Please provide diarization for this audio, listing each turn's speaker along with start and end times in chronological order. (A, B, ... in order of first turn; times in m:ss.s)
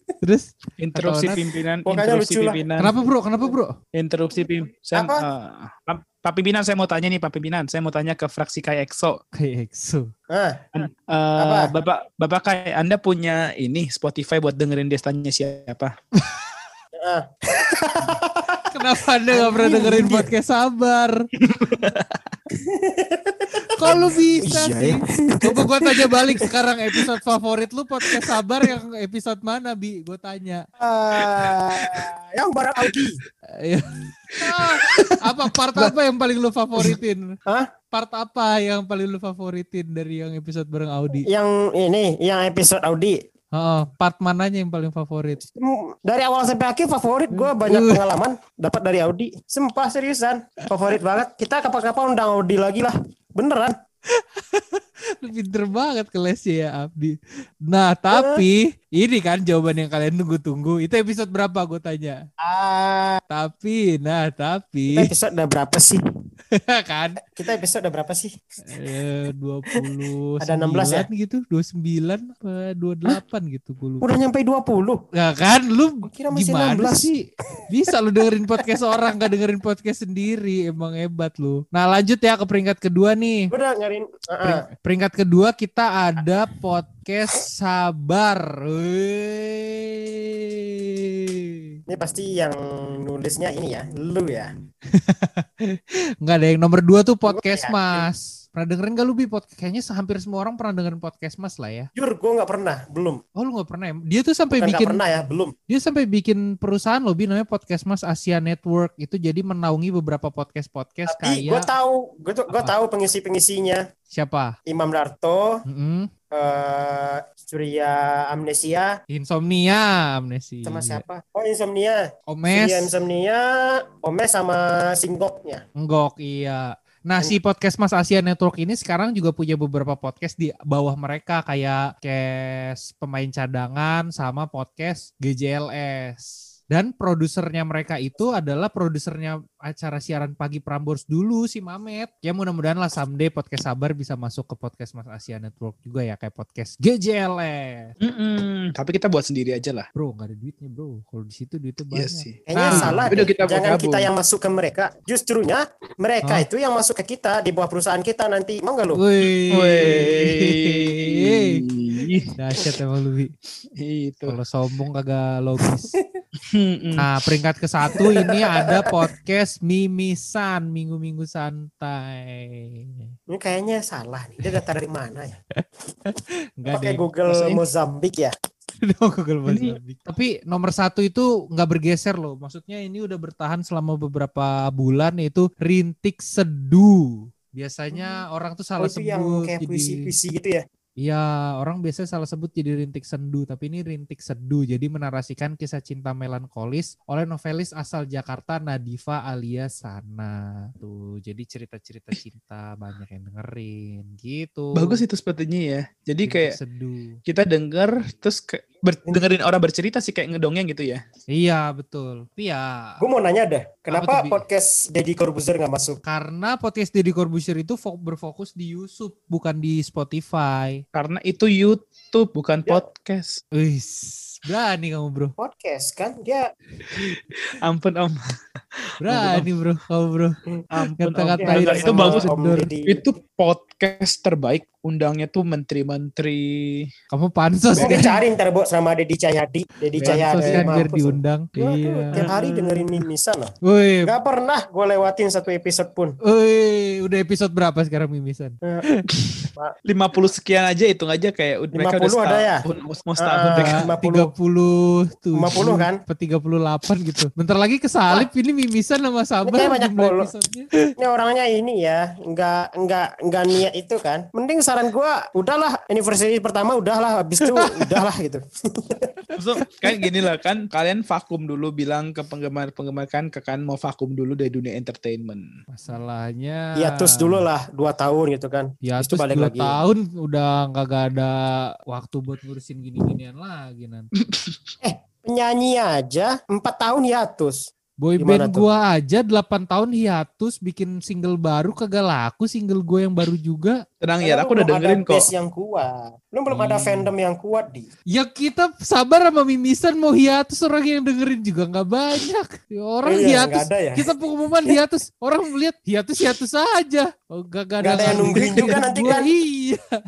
0:00.2-0:01.4 A
0:00.8-0:02.9 B
0:01.9-0:02.6 C
0:02.8-0:03.8 A
0:04.0-0:09.2 B
0:05.0-0:05.2 C
0:09.4-0:10.1 A
0:10.3-0:10.6 C
0:10.8-0:15.9 B
0:11.4-0:11.7 C
0:17.0-0:18.7 C
0:18.7-0:21.2 A
0:19.3-0:20.3 C
0:21.5-0:22.2 B
0:22.6-0:27.0 C
0:23.8-0:30.7 A
0:30.8-0:33.2 C
0:31.4-0:32.0 B
0:33.6-0:33.9 A
0:34.4-0:37.4 A
0:37.9-0:41.3 A
0:41.3-0:43.2 C
0:43.6-0:45.4 A
0:45.4-0:53.8 C
0:47.3-0:48.0 A
0:54.2-0:57.2 A
0:57.7-1:02.2 A
0:58.1-0:58.4 C
1:02.4-1:03.2 C
1:03.3-1:05.1 A
1:04.9-1:06.0 C
1:06.5-1:07.2 A
1:07.4-1:08.4 C
1:08.7-1:14.1 A
1:10.4-1:11.1 C
1:14.0-1:15.0 C
1:15.1-1:23.5 A
1:16.0-1:17.1 C
1:23.5-1:24.6 C
1:24.4-1:31.6 A
1:31.9-1:34.5 C
1:34.9-1:41.9 A
1:37.3-1:38.1 C
1:42.0-1:43.2 C
1:43.4-1:45.0 A
1:44.6-1:45.5 C
1:45.7-1:51.7 A
1:51.1-1:53.9 C
1:54.1-1:54.6 A
1:54.6-1:55.6 C
1:55.7-1:56.1 A
1:56.3-1:59.0 C
1:59.1-2:01.0 A
2:00.6-2:05.6 C
2:02.3-2:02.9 A
2:05.8-2:28.0 A
2:28.0-2:29.9 B
2:30.0-2:33.1 A
2:31.9-2:34.1 B
2:32.5-2:39.0 C
2:39.0-2:41.6 A
2:39.5-2:42.3 B
2:42.4-2:43.3 A
2:43.8-2:44.4 B
2:44.3-2:45.9 A
2:46.4-2:47.0 B
2:47.0-2:53.1 A
2:47.9-2:48.7 C
2:53.3-2:55.4 C
2:55.6-2:57.0 A
2:56.7-2:58.3 C
2:57.3-2:57.6 B
2:58.8-3:10.1 A
2:59.5-2:59.8 B
3:08.8-3:10.6 C
3:11.0-3:25.0 A
3:24.8-3:26.6 B
3:26.2-3:27.2 A
3:27.3-3:31.0 B
3:31.3-3:33.0 A
3:33.0-3:36.0 C
3:33.9-3:34.4 A
3:36.0-3:40.8 A
3:41.0-3:43.4 B
3:43.6-3:45.3 A
3:45.4-3:46.5 C
3:46.9-3:48.2 B
3:49.0-3:50.4 A
3:49.1-3:49.5 B
3:50.7-3:52.3 B
3:51.0-3:52.7 A
3:51.4-3:53.0 C
3:52.9-3:56.9 B
3:57.1-3:58.2 A
3:57.8-4:03.5 C
4:00.0-4:00.8 B
4:00.0-4:02.2 A
4:02.1-4:02.6 B
4:03.7-4:04.1 A
4:04.1-4:06.2 C
4:06.3-4:09.0 A
4:09.9-4:13.9 B
4:11.7-4:12.6 C
4:13.2-4:14.3 C
4:13.5-4:20.7 A
4:15.4-4:16.0 C
4:19.4-4:20.3 C
4:21.0-4:29.1 C
4:27.4-4:28.0 A
4:29.4-4:35.4 B
4:35.7-4:37.5 A
4:36.8-4:39.8 C
4:38.8-4:44.1 A
4:44.3-4:44.7 B
4:44.8-4:47.7 C
4:48.0-4:53.8 A
4:48.2-4:48.7 C
4:54.0-4:55.3 B
4:54.2-4:57.9 C
4:56.5-4:57.1 A
4:58.1-5:09.9 A
5:03.1-5:04.0 C
5:07.8-5:09.3 C
5:08.0-5:08.8 B